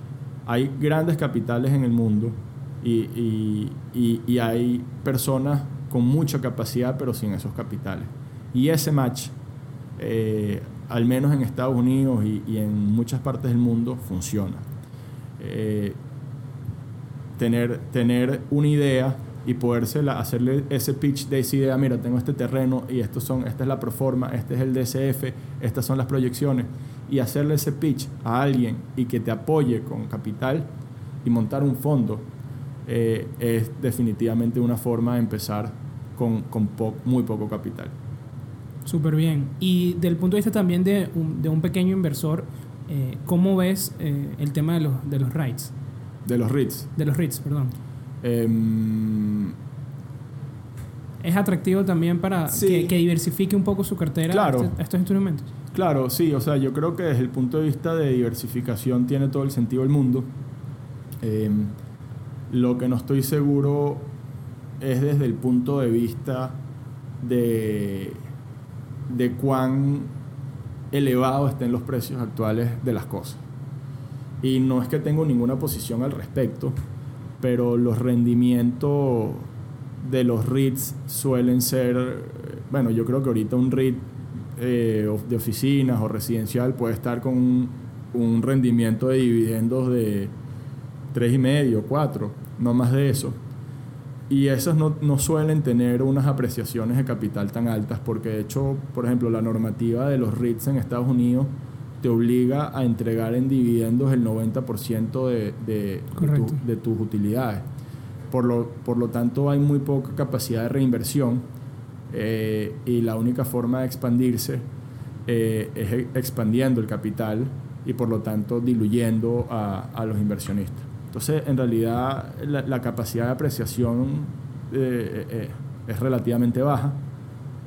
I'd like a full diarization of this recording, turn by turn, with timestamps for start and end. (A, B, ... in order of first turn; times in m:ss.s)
0:00.4-0:09.3 A
0:10.0-0:14.6 A
0:15.4-0:16.0 A
0:17.4-0:30.7 A
0:31.2-0:32.2 A
0:32.8-0:37.9 A
0:38.8-0:45.7 B
0:46.2-0:46.9 A
0:47.0-0:47.7 B
0:48.2-0:49.5 A
0:51.2-0:55.5 B
0:52.5-0:52.9 A
0:54.3-0:54.7 A
0:55.7-1:00.3 A
1:01.2-1:01.7 A
1:02.5-1:04.1 A
1:04.8-1:06.6 A
1:07.2-1:08.2 A
1:09.1-1:10.1 A
1:10.9-1:13.4 A
1:14.4-1:16.7 A
1:17.4-1:19.5 A
1:20.0-1:30.3 A
1:31.1-1:33.4 A
1:34.3-1:47.6 A
1:46.2-1:46.6 B
1:48.3-1:51.4 A
1:52.1-1:54.6 A
1:55.2-2:07.0 A